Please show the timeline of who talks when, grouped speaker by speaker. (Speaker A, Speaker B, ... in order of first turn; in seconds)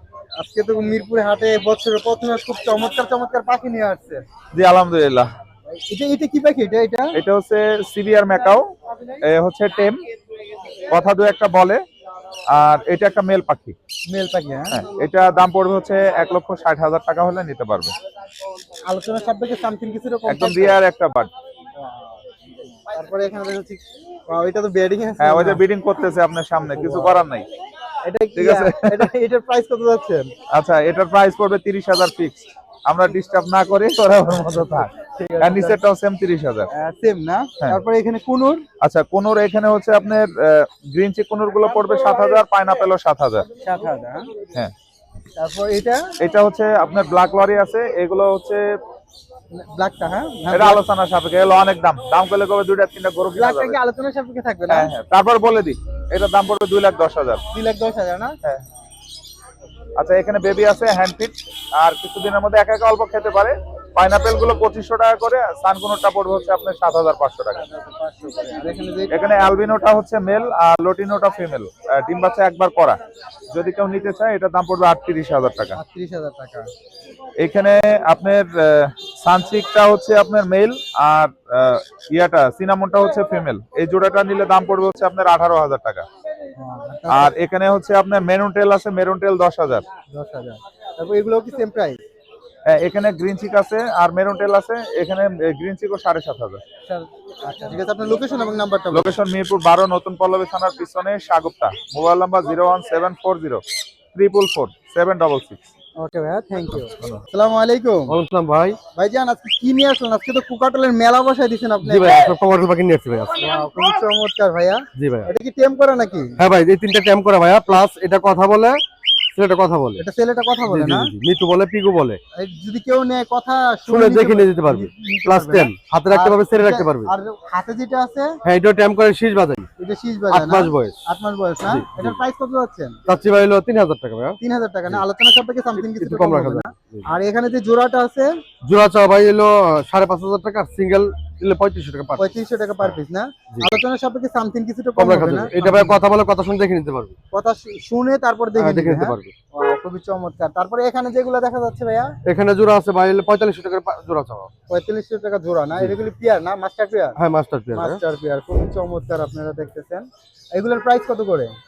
Speaker A: 0.4-4.2, 5.7-7.2, 14.1-14.8, 18.9-20.8, 21.8-22.2, 22.9-25.6, 26.6-27.2, 28.0-30.3, 35.0-35.8, 36.7-38.6, 43.5-44.3, 45.4-46.1, 49.5-50.8, 53.4-54.9, 57.5-58.4, 67.6-69.3, 75.7-76.7, 86.5-87.3, 90.1-92.0, 96.9-99.2, 106.0-108.2, 108.9-112.3, 113.4-116.4, 120.0-121.1, 122.3-128.3, 129.8-133.0, 134.4-138.3, 142.2-146.0, 147.3-152.1, 154.7-157.2, 157.7-161.5
Speaker B: 4.5-5.3, 7.2-10.0, 10.9-11.8, 12.5-13.8, 14.7-17.9, 20.3-21.3, 25.2-27.5, 28.4-29.1, 30.5-36.7, 38.8-43.5, 46.2-48.6, 50.5-53.8, 54.7-57.4, 60.0-67.6, 69.1-73.0, 73.5-75.8, 77.4-86.0, 87.1-89.8, 92.7-96.6, 98.9-103.6, 104.1-105.7
Speaker C: 108.1-108.8, 111.8-113.5, 115.0-115.3, 116.4-118.8, 119.3-120.0, 120.6-122.2, 123.9-127.1, 128.4-129.7, 130.3-131.0, 131.6-132.2, 133.1-135.0, 135.8-137.1, 138.6-143.0, 143.5-143.8, 145.0-147.1, 148.6-149.3, 152.2-154.5, 157.2-158.0